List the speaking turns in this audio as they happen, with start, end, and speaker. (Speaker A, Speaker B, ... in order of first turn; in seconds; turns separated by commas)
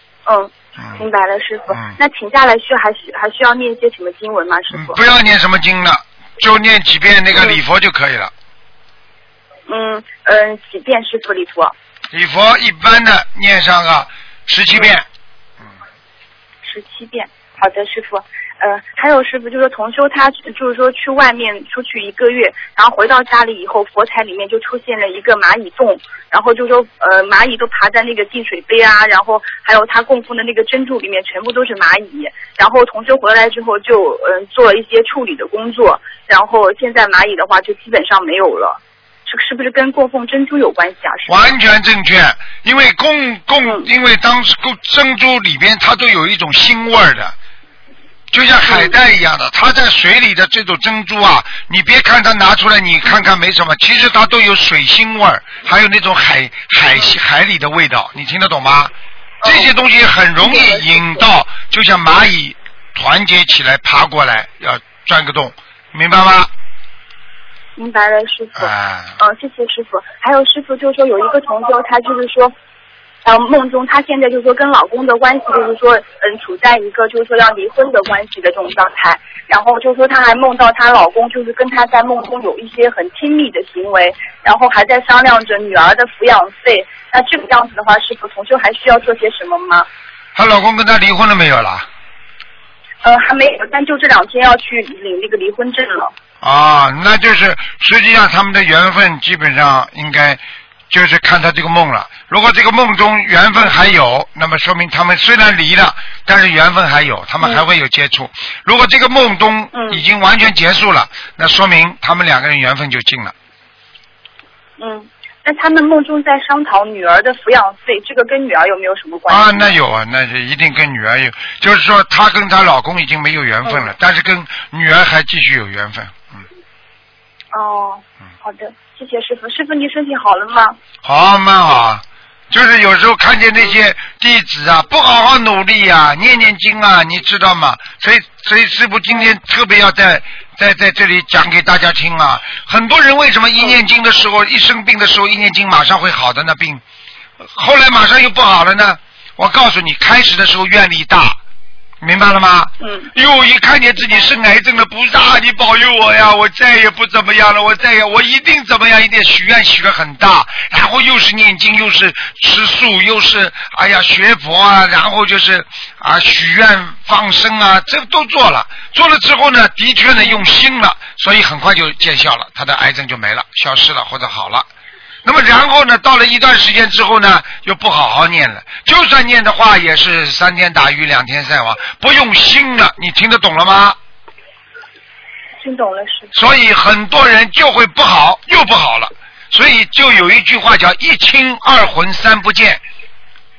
Speaker A: 0.2-5.0, Speaker B: 0.8-1.0, Speaker B: 1.7-2.0, Speaker B: 4.7-8.3, Speaker A: 9.7-11.7, Speaker B: 12.1-15.1, Speaker A: 16.6-41.5, Speaker B: 41.3-47.3, Speaker B: 48.3-58.9, Speaker A: 59.4-59.7, Speaker B: 59.4-66.5, Speaker A: 60.4-61.0, Speaker A: 67.8-72.5, Speaker B: 68.6-69.2, Speaker A: 73.2-89.9, Speaker B: 90.3-91.9, Speaker A: 93.0-96.1, Speaker B: 96.4-113.3, Speaker A: 109.7-110.0, Speaker A: 114.8-119.7, Speaker B: 119.3-126.4, Speaker A: 127.5-130.8, Speaker B: 131.0-146.8, Speaker B: 147.4-151.4, Speaker B: 152.0-174.7, Speaker B: 175.2-184.0, Speaker A: 185.6-186.4, Speaker B: 186.3-192.8